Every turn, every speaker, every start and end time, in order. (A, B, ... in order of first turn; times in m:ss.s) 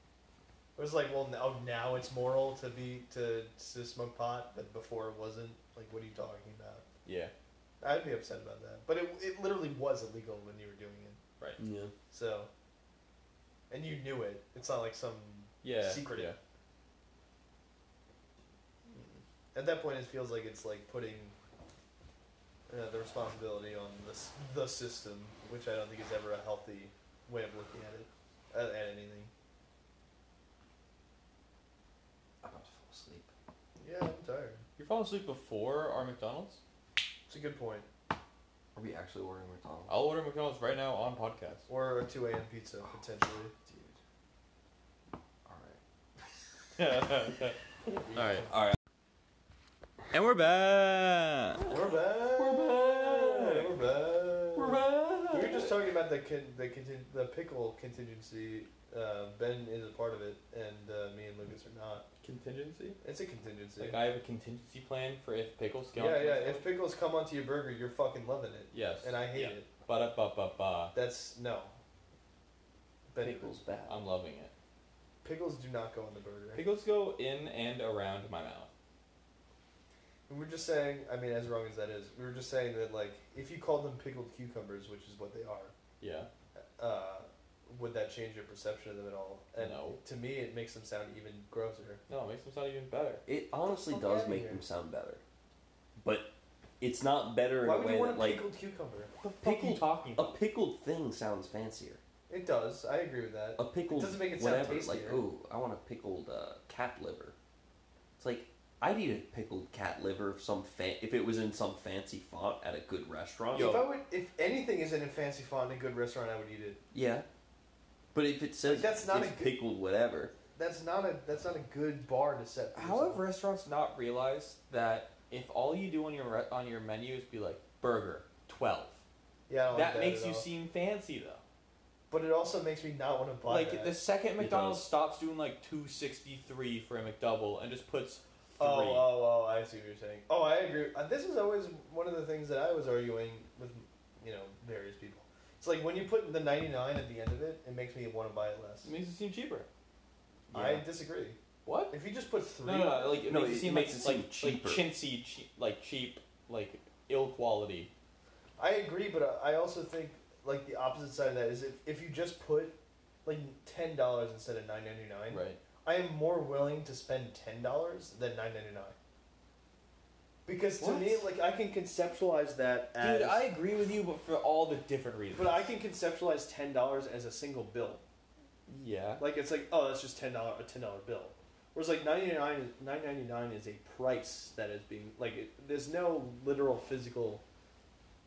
0:00.8-0:06.8 A
0:07.0-0:07.3 B
0:07.8-0:11.2 A
0:11.6-0:11.9 C
0:12.1-0:12.5 A
0:13.7-0:16.3 A
0:15.6-0:16.4 B
0:18.9-0:21.3 A
0:22.7-0:29.3 A
0:32.4-0:33.3 C
0:33.8-0:34.6 A
0:34.8-0:36.6 B
0:37.3-0:37.9 A
0:38.7-0:39.9 C
0:39.9-0:41.6 B
0:41.7-0:43.5 A
0:43.6-0:44.0 C
0:45.4-0:45.8 C
0:46.8-0:47.6 B
0:48.1-0:48.5 B
0:50.1-0:51.6 B
0:51.6-1:02.0 A
0:52.3-0:53.7 C
0:54.6-0:55.6 C
1:02.2-1:03.0 B
1:03.0-1:04.0 A
1:03.8-1:06.6 B
1:05.9-1:09.7 A
1:08.7-1:10.9 B
1:10.9-1:11.7 A
1:13.1-1:13.6 A
1:13.2-1:14.0 C
1:13.9-1:14.5 B
1:15.2-1:16.6 A
1:16.5-1:18.7 B
1:20.3-1:25.7 A
1:26.0-1:26.3 B
1:26.8-1:32.0 A
1:29.6-1:30.0 B
1:32.1-1:33.2 B
1:33.2-1:35.2 C
1:33.8-1:34.6 A
1:36.0-1:38.4 C
1:37.6-1:39.1 A
1:39.2-1:40.3 B
1:39.4-1:42.0 C
1:42.3-1:45.2 A
1:43.6-1:47.4 C
1:48.2-1:53.9 C
1:53.5-1:56.8 A
1:53.6-1:53.8 B
1:56.9-1:57.2 C
1:58.1-2:00.3 C
1:58.7-1:59.5 A
2:00.5-2:03.2 A
2:02.7-2:09.0 B
2:09.5-2:10.4 A
2:09.7-2:11.4 B
2:12.1-2:13.9 A
2:13.4-2:19.1 B
2:14.4-2:14.8 C
2:18.6-2:28.9 A
2:28.8-2:29.7 B
2:30.5-2:30.8 C
2:30.5-2:31.4 A
2:31.6-2:32.0 B
2:31.9-2:33.2 A
2:32.6-2:37.9 B
2:33.2-2:34.8 C
2:38.6-2:49.0 A
2:45.3-2:45.6 B
2:50.4-2:53.5 A
2:50.8-2:51.2 B
2:53.0-2:55.7 B
2:55.3-2:58.0 A
2:58.7-2:59.2 B
2:59.2-3:07.4 A